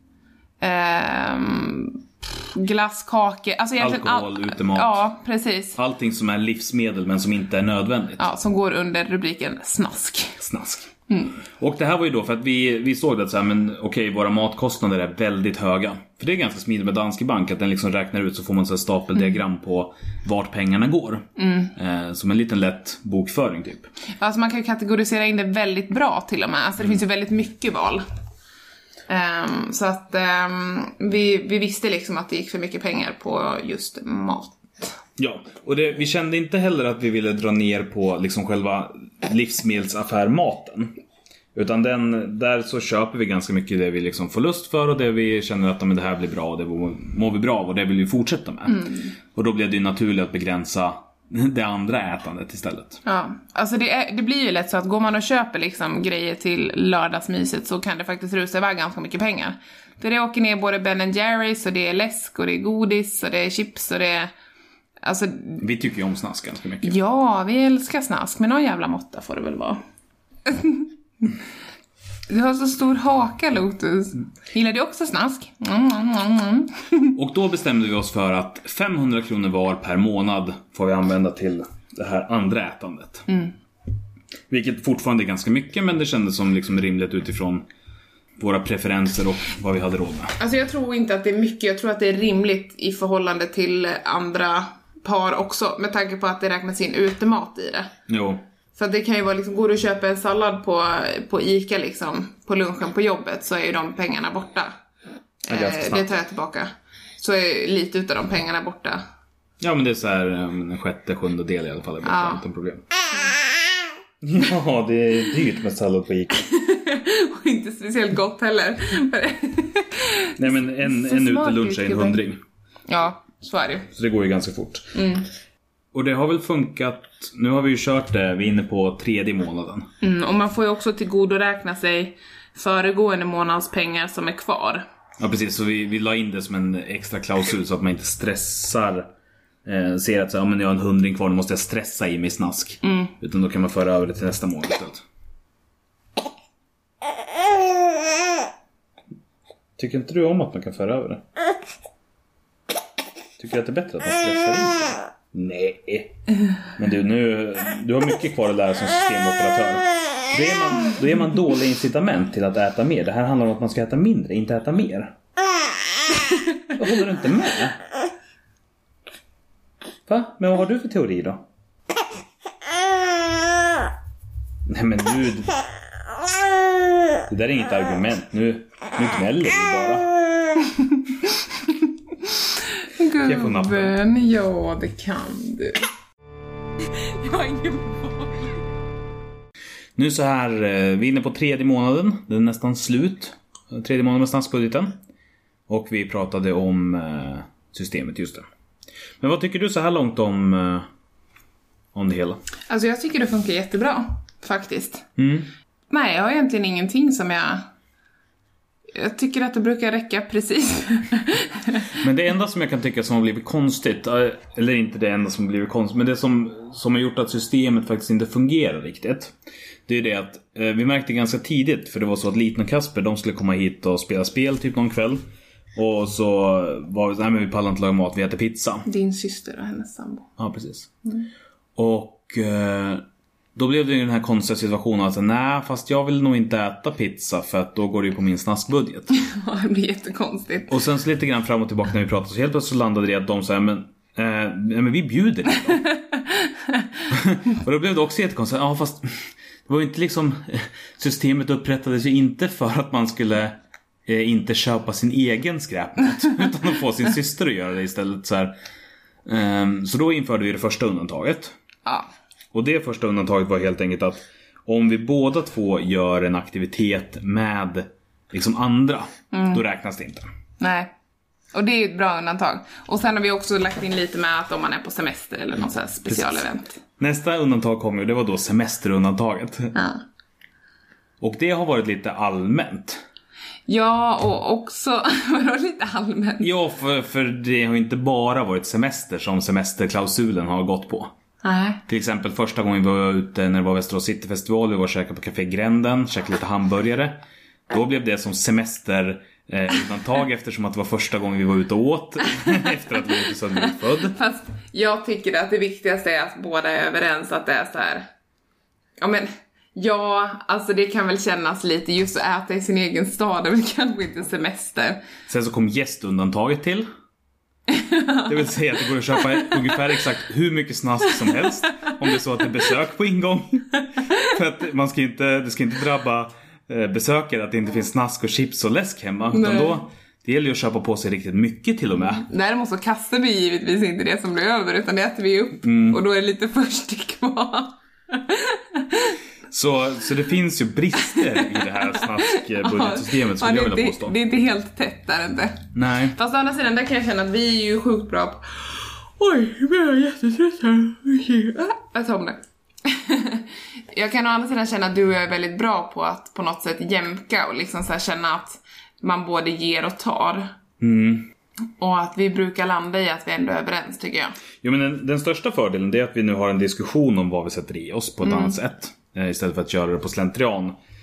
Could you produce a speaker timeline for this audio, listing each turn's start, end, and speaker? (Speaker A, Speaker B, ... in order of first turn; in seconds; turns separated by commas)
Speaker A: 0.6-5.8, Speaker B: 3.8-5.0, Speaker B: 5.8-8.2, Speaker A: 8.2-10.4, Speaker B: 10.4-10.9, Speaker A: 11.1-11.4, Speaker B: 11.4-23.9, Speaker A: 21.4-21.7, Speaker A: 24.2-28.0, Speaker A: 29.1-35.0, Speaker B: 35.2-41.0, Speaker B: 41.5-53.0, Speaker A: 48.7-49.1, Speaker A: 53.0-64.3, Speaker A: 65.0-65.6, Speaker B: 65.6-67.0, Speaker A: 66.8-69.8, Speaker A: 70.5-70.9, Speaker A: 72.3-77.2, Speaker B: 77.2-83.3, Speaker A: 83.3-83.5, Speaker B: 84.5-87.7, Speaker B: 88.4-90.4, Speaker A: 90.4-97.9, Speaker B: 98.1-98.4, Speaker A: 98.8-104.7, Speaker A: 105.5-109.0, Speaker B: 105.5-106.1, Speaker B: 109.6-112.9, Speaker A: 112.0-112.4, Speaker B: 114.2-116.5, Speaker A: 116.4-122.2, Speaker B: 120.4-122.4, Speaker A: 122.9-123.9, Speaker B: 123.9-124.9, Speaker A: 124.9-125.3, Speaker B: 125.9-129.9, Speaker A: 130.0-134.8, Speaker B: 135.2-139.1, Speaker B: 139.7-145.0, Speaker A: 142.8-143.1, Speaker B: 149.8-151.2, Speaker B: 153.4-156.2, Speaker B: 156.8-165.2, Speaker B: 166.7-167.8, Speaker B: 170.1-171.4, Speaker B: 174.7-175.6, Speaker B: 177.3-180.1, Speaker A: 182.3-185.9, Speaker B: 183.2-184.0, Speaker A: 187.1-188.4, Speaker B: 190.0-195.0, Speaker B: 195.7-198.4, Speaker B: 199.2-200.9, Speaker B: 201.9-202.4, Speaker A: 202.7-205.1, Speaker B: 205.2-205.5, Speaker A: 205.9-207.7, Speaker A: 208.9-211.9, Speaker B: 212.0-219.3, Speaker B: 219.9-225.2, Speaker B: 225.8-228.9, Speaker A: 228.9-230.3, Speaker B: 230.4-230.9, Speaker B: 231.8-233.0, Speaker B: 233.6-239.1, Speaker A: 239.1-240.8, Speaker B: 240.7-245.8, Speaker A: 245.8-246.9, Speaker B: 247.1-258.5, Speaker B: 259.3-261.5, Speaker B: 262.5-270.2, Speaker A: 269.3-269.6, Speaker A: 270.6-270.9, Speaker A: 271.5-276.8, Speaker B: 276.1-276.4, Speaker B: 277.0-279.8, Speaker A: 279.8-280.0, Speaker B: 281.2-283.0, Speaker A: 283.7-286.5, Speaker B: 286.4-291.1, Speaker A: 291.4-291.8, Speaker B: 291.9-304.2, Speaker A: 304.0-308.1, Speaker A: 309.0-315.0, Speaker B: 315.3-316.9, Speaker A: 317.7-318.3, Speaker B: 318.3-332.2, Speaker A: 324.0-324.3, Speaker A: 329.3-329.8, Speaker A: 332.2-339.2, Speaker B: 335.6-336.0, Speaker B: 339.5-344.2, Speaker A: 341.0-360.5, Speaker B: 345.8-346.2, Speaker B: 360.8-361.3, Speaker A: 361.8-364.4, Speaker B: 364.6-370.8, Speaker A: 368.2-368.6